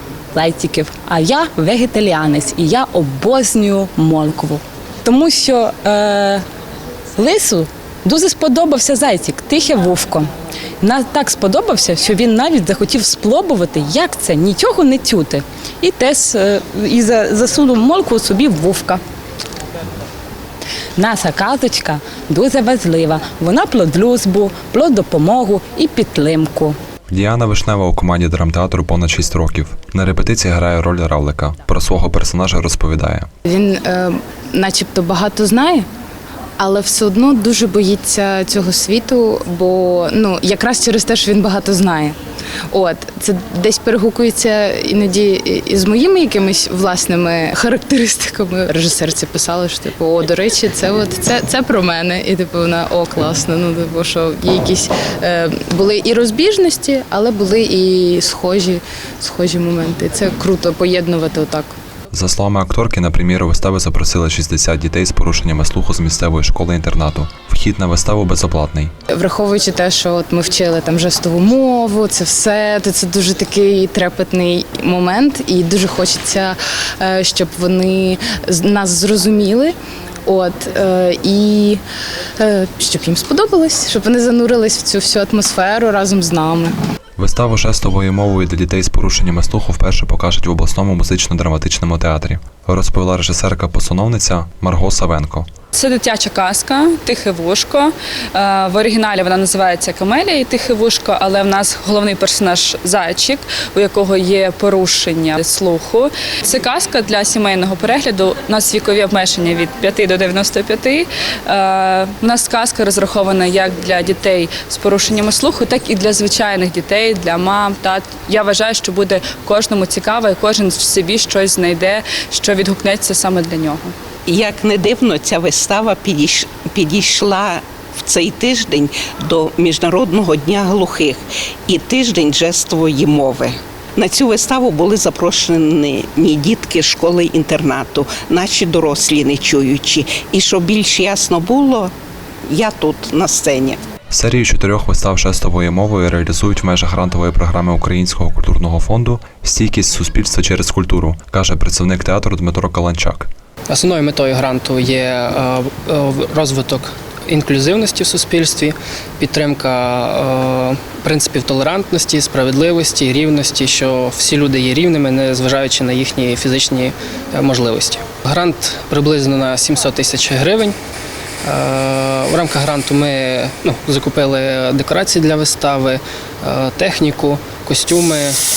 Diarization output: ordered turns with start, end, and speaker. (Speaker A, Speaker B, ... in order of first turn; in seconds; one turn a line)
Speaker A: 0.3-6.4
Speaker A: 7.2-10.3
Speaker A: 10.8-19.0
Speaker A: 21.0-26.8
Speaker B: 27.1-33.3
Speaker C: 33.5-35.9
Speaker C: 36.6-42.1
Speaker C: 42.7-61.7
Speaker B: 62.1-68.9
Speaker C: 69.1-79.7
Speaker C: 80.2-81.8
Speaker C: 82.4-86.8
Speaker B: 87.2-95.5
Speaker D: 95.7-123.9
Speaker E: 124.3-141.9
Speaker E: 142.5-143.8
Speaker B: 144.1-153.3
Speaker F: 153.7-170.8
Speaker F: 171.4-178.4